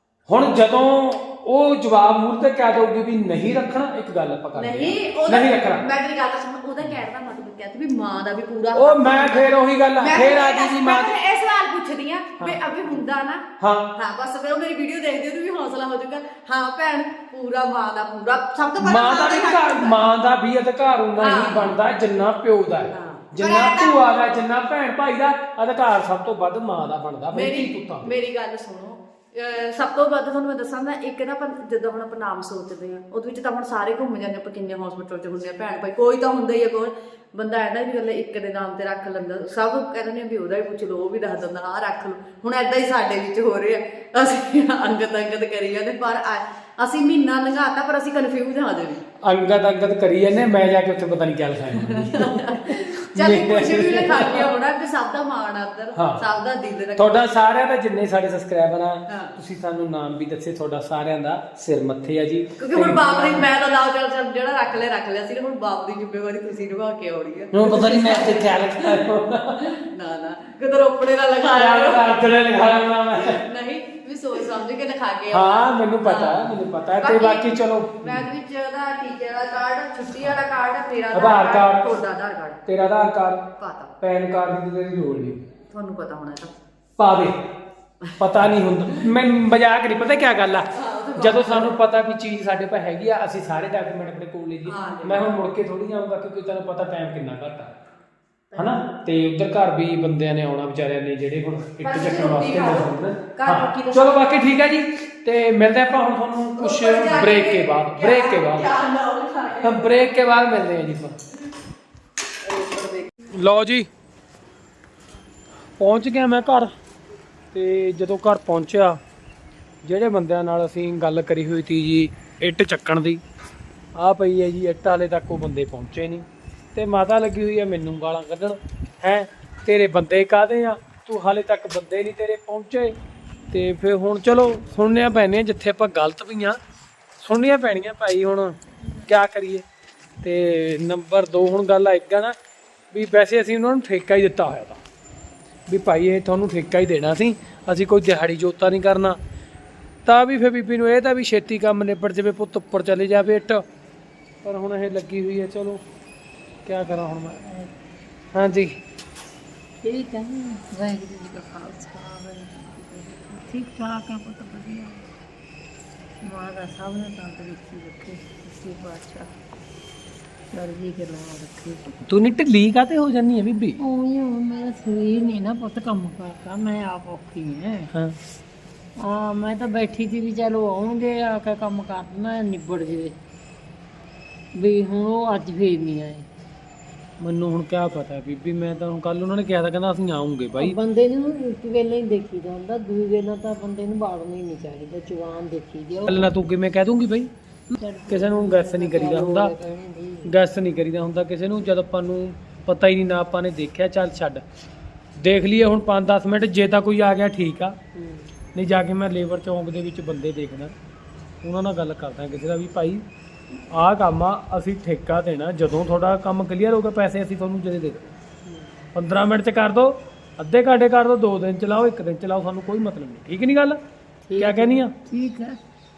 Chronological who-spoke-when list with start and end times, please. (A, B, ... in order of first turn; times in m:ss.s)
0:00.3-0:05.8 A
0:04.6-0:20.0 B
0:08.8-0:11.2 A
0:13.6-0:13.9 A
0:18.8-0:28.1 A
0:21.2-0:21.8 B
0:22.9-0:24.2 B
0:27.3-0:49.0 B
0:49.2-0:54.5 A
0:51.8-0:57.2 B
0:55.9-0:56.2 A
0:57.0-1:03.5 A
0:59.1-0:59.4 B
1:02.6-1:09.1 B
1:07.5-1:09.8 A
1:09.6-1:12.2 B
1:11.5-1:13.4 A
1:13.1-1:22.6 B
1:15.3-1:18.2 A
1:21.1-1:21.8 A
1:22.6-1:23.4 A
1:23.6-1:23.9 B
1:24.0-1:25.4 A
1:25.7-1:26.5 B
1:27.0-1:27.4 A
1:28.0-1:28.5 B
1:28.2-1:37.8 A
1:30.7-1:31.7 B
1:34.6-1:35.4 B
1:38.5-1:48.7 A
1:41.8-1:44.5 B
1:46.6-1:49.9 B
1:49.6-1:51.2 A
1:52.4-1:53.1 B
1:53.3-1:53.9 A
1:55.8-1:56.7 A
1:57.5-1:59.0 A
1:59.8-2:03.2 A
2:04.0-2:13.0 A
2:13.5-2:16.6 A
2:17.2-2:19.6 A
2:20.2-2:22.4 A
2:22.9-2:24.8 A
2:25.7-2:29.2 A
2:30.0-2:33.6 A
2:34.4-2:35.8 A
2:36.6-2:37.4 A
2:36.9-2:37.7 C
2:38.3-2:38.8 A
2:39.8-2:45.1 C
2:46.2-2:49.3 C
2:50.5-2:52.0 C
2:52.1-2:53.8 A
2:53.8-2:57.9 C
2:59.0-3:03.2 C
3:04.6-3:06.3 C
3:07.2-3:10.8 A
3:10.6-3:16.3 C
3:16.1-3:17.3 A
3:17.7-3:20.3 C
3:18.1-3:19.5 A
3:20.2-3:24.4 A
3:25.2-3:27.8 A
3:27.9-3:28.3 C
3:28.5-3:30.8 A
3:31.4-3:33.0 A
3:33.7-3:38.1 A
3:38.4-3:38.9 C
3:38.9-3:43.8 A
3:44.2-3:45.6 C
3:44.4-3:44.9 A